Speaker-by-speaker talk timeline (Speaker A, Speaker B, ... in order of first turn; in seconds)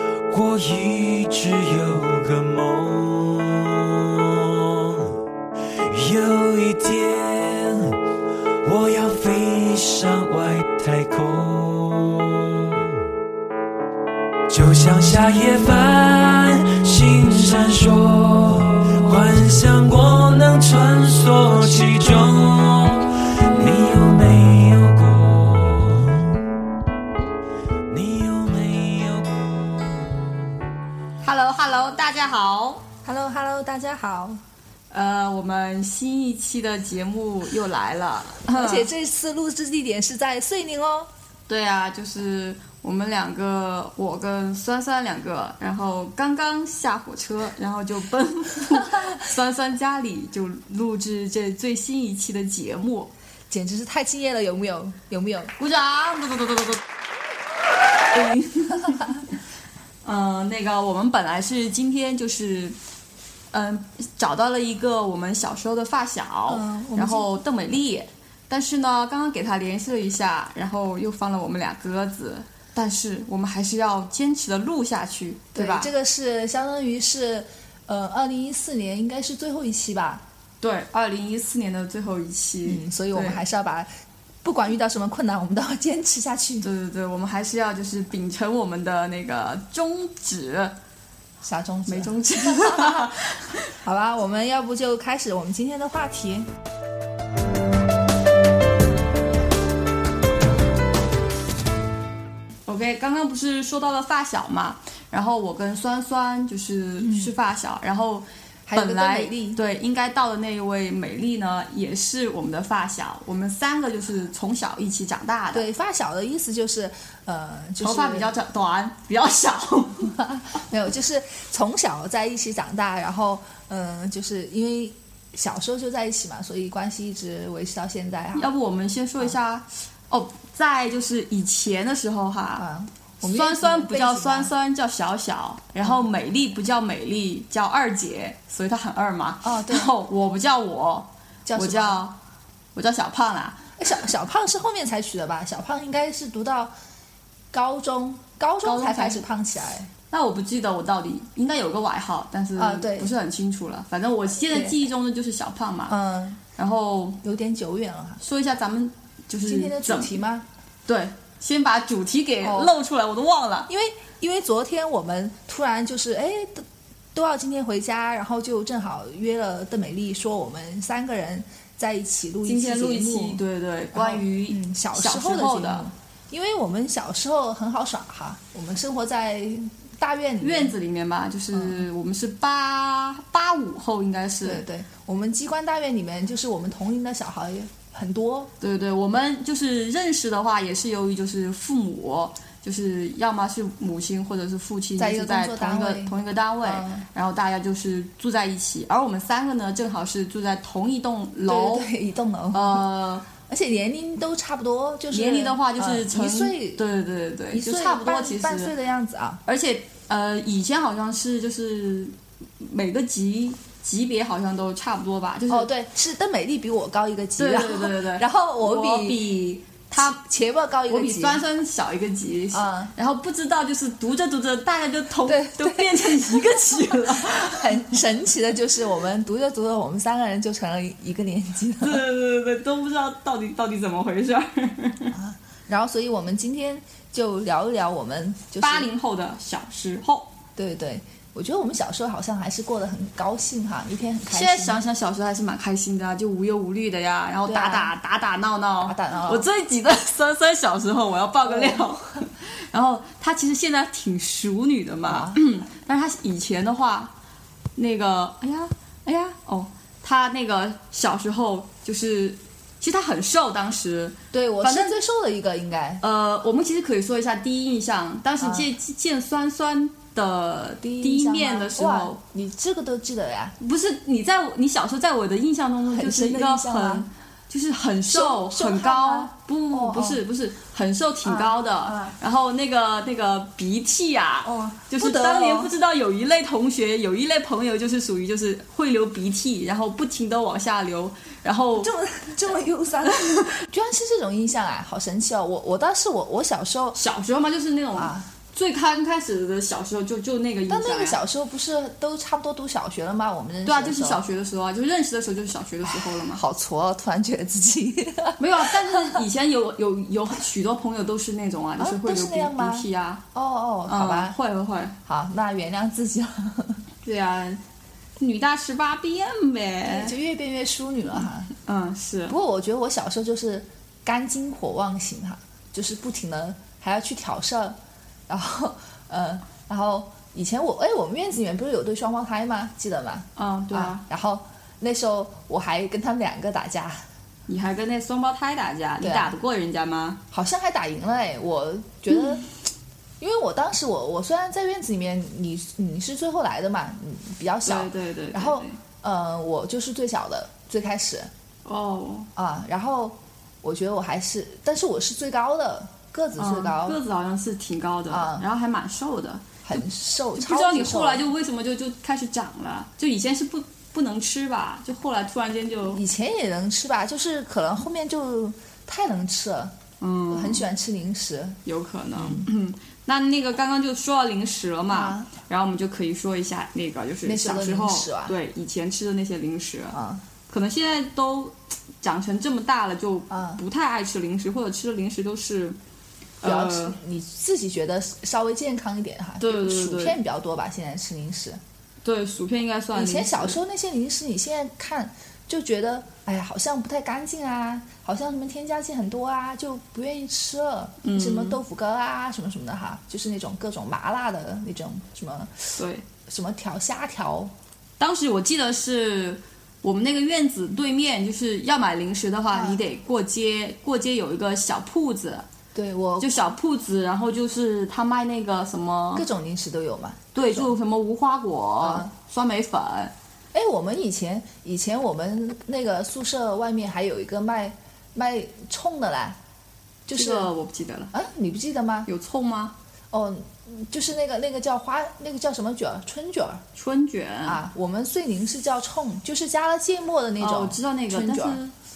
Speaker A: 0.3-5.1, 5.8-8.0, 8.6-13.0, 14.5-26.2, 27.9-30.2
Speaker B: 31.2-32.9, 34.9-38.9, 41.5-53.1, 55.6-56.8, 58.1-59.2, 60.0-62.8, 63.5-75.9, 80.6-83.4, 86.6-90.8, 91.9-93.7, 102.7-115.6, 117.8-120.1, 128.3-132.6, 133.2-142.2, 142.7-143.7, 148.6-149.2, 150.1-155.9, 156.6-157.2, 158.2-160.1, 160.9-163.7, 172.4-175.9, 180.4-184.6, 188.6-201.9, 202.5-203.3, 205.1-208.7, 209.4-215.7, 217.4-220.2, 220.9-227.6, 231.8-235.1, 238.6-240.3, 244.3-257.1, 257.8-264.9, 266.0-272.2, 273.6-291.9, 293.1-293.4, 297.0-301.2, 303.6-306.4, 308.4-313.2, 313.9-314.9, 317.0-317.6, 318.2-320.1, 321.6-322.4, 333.4-334.0, 337.5-340.2, 347.6-348.8, 351.6-352.3, 356.4-359.5, 360.4-366.0, 370.0-370.6, 371.6-380.0, 380.5-385.8, 386.4-387.0, 389.4-390.2, 392.0-393.6, 401.0-401.6, 405.8-406.0, 408.0-415.4, 416.2-419.2, 420.3-423.1, 430.1-431.1, 432.1-432.7, 436.8-437.6, 440.4-441.7
Speaker C: 33.0-34.4, 38.5-41.1, 53.5-55.5, 66.5-67.3, 75.5-80.2, 82.6-83.9, 84.4-86.7, 91.4-93.1, 93.8-96.5, 107.0-107.3, 108.7-109.6, 115.5-118.3, 120.0-128.5, 132.6-134.5, 139.4-139.9, 141.4-142.0, 143.8-146.7, 147.5-149.9, 152.6-153.1, 154.4-154.8, 155.9-156.4, 157.2-158.2, 159.4-160.4, 162.4-162.7, 163.7-173.4, 173.9-180.8, 181.5-181.8, 184.4-188.5, 195.0-197.1, 201.5-202.8, 203.3-206.8, 207.5-209.4, 215.5-219.3, 220.0-221.4, 222.5-222.9, 225.2-232.0, 235.1-238.9, 240.6-244.8, 247.4-247.9, 248.8-249.5, 251.4-251.9, 255.1-255.4, 264.3-266.0, 268.4-268.7, 270.8-273.6, 275.9-277.1, 278.1-280.2, 281.2-282.1, 284.4-285.7, 291.8-297.0, 297.9-298.3, 300.7-304.2, 305.8-309.2, 311.8-314.4, 315.1-316.8, 319.9-321.5, 322.3-327.8, 328.3-337.0, 339.0-339.3, 340.3-342.4, 343.2-351.3, 352.4-357.0, 358.1-358.4, 359.6-361.2, 365.9-369.7, 370.3-371.6, 372.1-372.5, 374.9-375.3, 377.2-378.4, 379.9-380.2, 383.3-383.6, 386.4-391.6, 392.9-407.5, 412.5-412.8, 415.7-416.5, 419.1-420.7, 421.8-422.1, 423.5-429.4, 430.1-430.5, 431.1-432.1, 433.1-436.6, 437.4-441.6